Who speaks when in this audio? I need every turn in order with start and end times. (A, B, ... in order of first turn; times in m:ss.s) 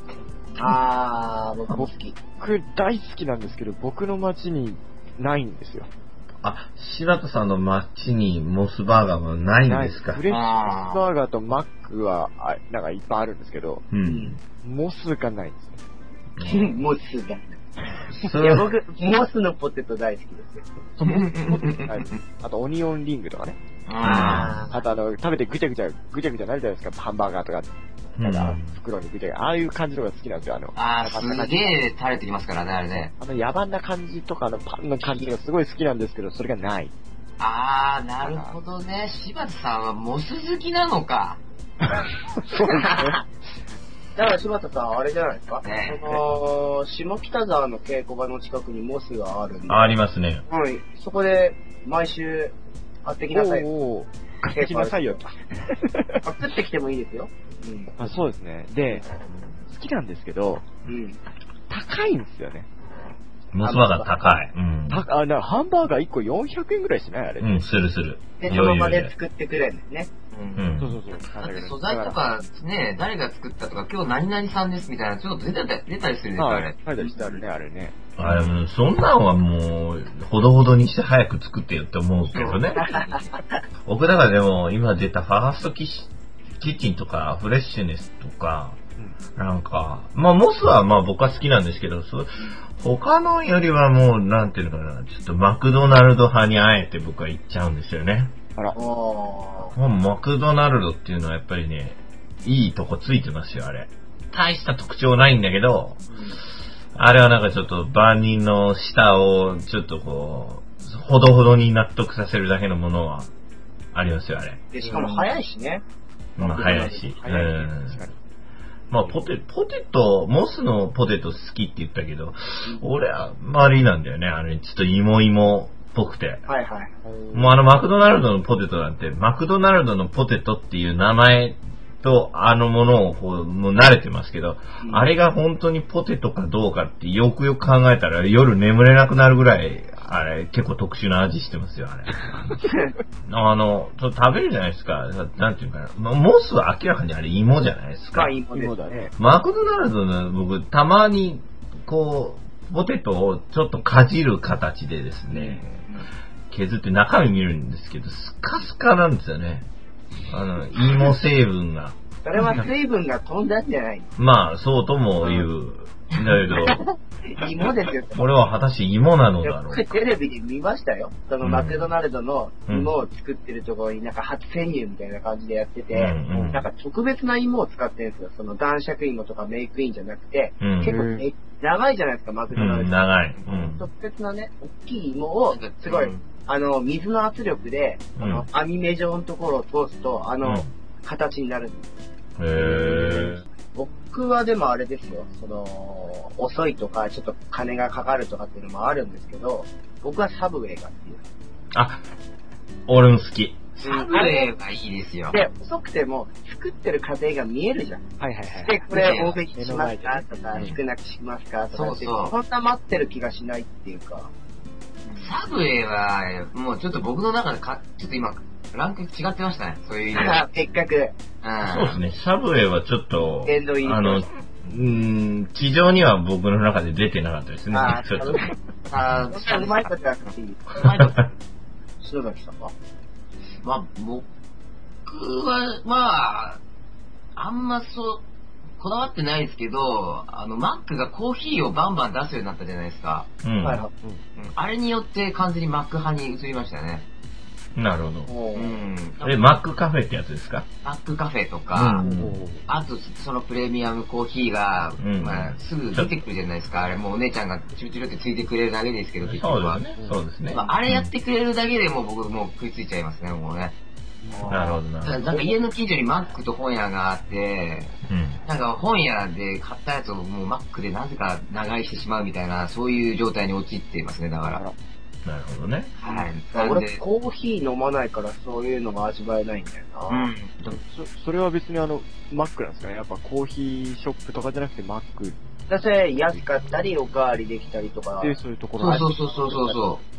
0:00.6-0:02.2 A
0:01.7-0:05.9 B
0:06.4-0:10.2 C
0:09.7-0:13.8 B
0:10.3-0:11.1 D
0:13.9-0:14.4 C
0:14.0-0:14.4 A
0:14.6-0:15.8 B
0:16.4-0:16.8 C
0:16.4-0:17.6 A
0:18.2-0:18.7 C
0:18.3-0:20.6 A
0:21.0-0:23.6 B
0:21.0-0:22.2 D
0:23.9-0:24.7 D
0:24.0-0:24.7 C
0:24.0-0:24.8 A
0:24.7-0:31.8 B
0:28.2-0:28.8 C
0:30.8-0:33.1 D
0:33.0-0:36.9 B
0:37.4-0:41.4 D
0:38.2-0:38.6 B
0:41.8-0:43.2 B
0:42.8-0:43.2 A
0:44.2-0:50.0 A
0:45.6-0:46.0 D
0:49.7-0:50.4 C
0:50.5-0:53.7 A
0:53.3-0:56.2 B
0:54.5-0:55.3 A
0:56.2-0:57.9 A
0:58.0-0:59.1 B
0:59.7-1:00.6 B
1:00.9-1:01.2 A
1:01.7-1:02.7 B
1:03.5-1:05.0 C
1:03.6-1:04.3 A
1:04.9-1:07.8 B
1:07.4-1:09.1 C
1:08.4-1:10.1 A
1:10.3-1:10.7 D
1:10.6-1:11.0 C
1:10.8-1:12.3 B
1:11.4-1:16.8 D
1:16.4-1:18.0 B
1:17.0-1:17.3 A
1:18.2-1:22.8 C
1:18.2-1:18.6 D
1:22.3-1:23.3 D
1:22.8-1:23.4 A
1:23.9-1:28.8 C
1:29.4-1:38.3 C
1:38.8-1:39.8 A
1:39.8-1:46.0 C
1:46.1-1:46.4 A
1:47.0-1:53.3 C
1:53.9-1:54.6 C
1:54.7-1:55.8 A
1:54.8-1:55.2 B
1:56.4-1:57.0 A
1:56.4-1:58.0 C
1:56.5-1:58.2 B
1:58.9-2:06.4 C
2:06.5-2:06.9 A
2:07.0-2:07.6 B
2:07.3-2:22.3 C
2:22.7-2:22.9 A
2:23.2-2:28.3 C
2:28.1-2:29.0 A
2:28.5-2:29.1 B
2:29.2-2:35.9 C
2:35.3-2:36.1 A
2:36.5-2:39.7 C
2:40.3-2:42.7 C
2:42.2-2:44.1 A
2:44.2-2:46.8 C
2:47.3-2:48.2 A
2:48.1-2:49.9 C
2:49.4-3:11.9 A
2:51.4-2:51.9 C
2:55.9-2:56.7 C
3:00.6-3:01.0 C
3:00.8-3:01.3 B
3:02.5-3:03.8 C
3:05.5-3:06.2 D
3:08.2-3:08.5 C
3:10.4-3:10.7 C
3:12.4-3:13.4 C
3:12.8-3:21.2 A
3:21.8-3:22.0 C
3:22.9-3:23.6 C
3:23.8-3:25.4 D
3:23.8-3:24.5 A
3:25.3-3:34.3 A
3:28.2-3:30.8 B
3:28.9-3:29.4 D
3:31.7-3:32.4 D
3:35.2-3:40.4 D
3:40.1-3:41.2 A
3:41.4-3:42.0 D
3:41.6-3:48.5 C
3:43.5-3:44.3 A
3:47.7-3:48.5 A
3:48.9-3:51.2 D
3:49.3-3:50.8 A
3:52.0-3:52.7 A
3:53.6-3:54.3 D
3:55.1-3:56.6 D
3:57.4-3:58.2 D
3:58.8-4:03.3 D
4:03.4-4:03.8 C
4:03.6-4:03.9 A
4:04.4-4:07.1 D
4:07.8-4:08.3 C
4:08.3-4:08.8 A
4:08.5-4:09.6 D
4:09.2-4:10.7 C
4:10.8-4:12.1 D
4:11.7-4:12.4 C
4:12.0-4:12.6 B
4:12.7-4:19.8 D
4:15.0-4:16.1 C
4:19.2-4:21.1 C
4:20.5-4:23.8 D
4:24.2-4:24.8 B
4:24.5-4:27.9 D
4:24.5-4:25.3 C
4:28.1-4:28.4 C
4:28.4-4:34.6 D
4:35.2-4:35.9 C
4:36.0-4:37.0 D
4:36.1-4:40.3 A
4:40.1-4:40.8 D
4:40.7-4:45.4 B
4:45.7-4:49.8 A
4:48.2-4:49.1 B
4:48.8-4:50.0 D